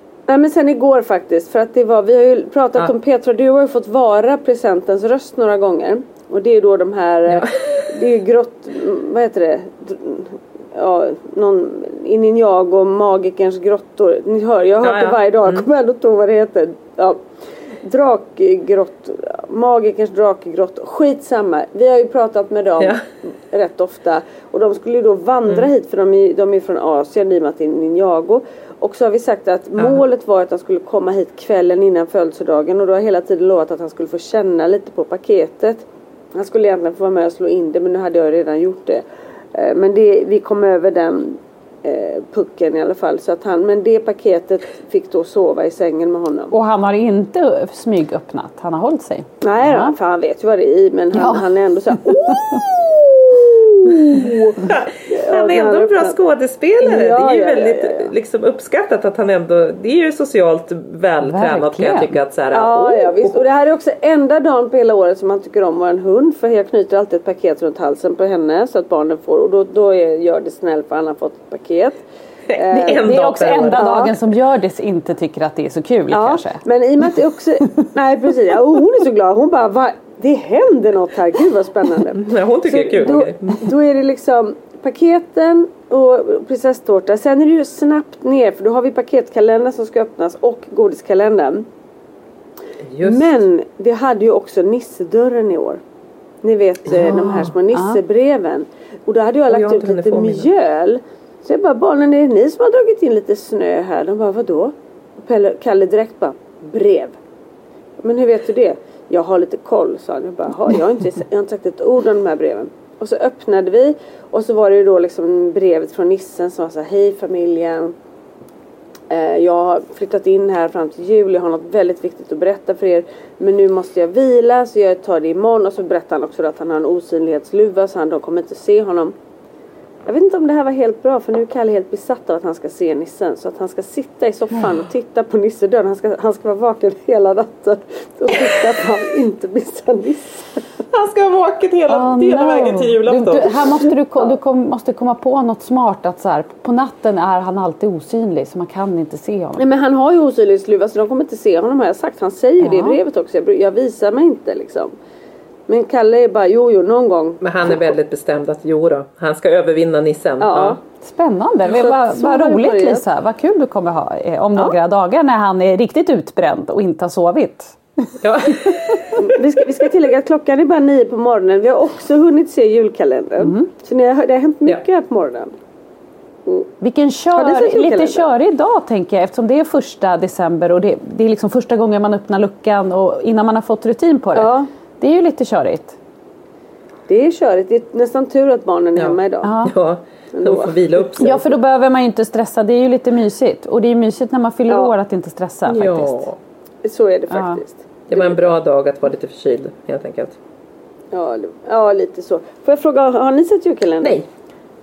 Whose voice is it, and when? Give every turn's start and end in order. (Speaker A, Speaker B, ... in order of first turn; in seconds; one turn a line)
Speaker A: 0.3-17.2
Speaker B: 7.2-7.9
Speaker B: 14.8-15.7
Speaker A: 17.8-46.5
Speaker C: 46.5-49.9
Speaker A: 49.4-52.7
Speaker C: 51.1-51.5
Speaker C: 52.1-52.4
Speaker B: 52.7-53.3
Speaker A: 53.3-56.2
Speaker B: 54.1-63.4
Speaker A: 56.8-58.1
Speaker C: 61.2-62.1
Speaker A: 62.5-72.0
Speaker B: 72.5-74.1
Speaker A: 72.6-73.0
Speaker C: 72.9-76.6
Speaker A: 73.8-74.1
Speaker A: 76.1-91.7
Speaker B: 82.2-83.6
Speaker B: 92.9-93.3
Speaker A: 93.0-95.8
Speaker A: 96.4-107.2
Speaker B: 96.9-97.5
Speaker C: 97.7-98.0
Speaker B: 99.5-100.5
Speaker A: 108.0-117.9
Speaker A: 119.1-129.1
Speaker A: 130.1-140.6
Speaker B: 140.9-143.5
Speaker C: 141.9-149.6
Speaker A: 149.6-154.9
Speaker C: 152.6-153.0
Speaker A: 155.7-157.9
Speaker B: 157.4-160.8
Speaker A: 160.4-160.8
Speaker C: 161.0-169.1
Speaker A: 161.7-163.0
Speaker B: 168.2-169.2
Speaker A: 169.2-175.5
Speaker C: 173.4-173.7
Speaker A: 176.4-176.7
Speaker C: 176.8-186.0
Speaker A: 177.3-178.3
Speaker A: 184.3-184.7
Speaker A: 187.1-189.5
Speaker B: 188.9-191.5
Speaker C: 189.4-189.7
Speaker A: 190.3-190.7
Speaker C: 191.2-196.2
Speaker A: 194.7-194.9
Speaker B: 195.7-196.4
Speaker A: 196.8-198.4
Speaker C: 197.3-197.6
Speaker B: 198.1-200.3
Speaker A: 201.1-204.2
Speaker B: 204.0-204.3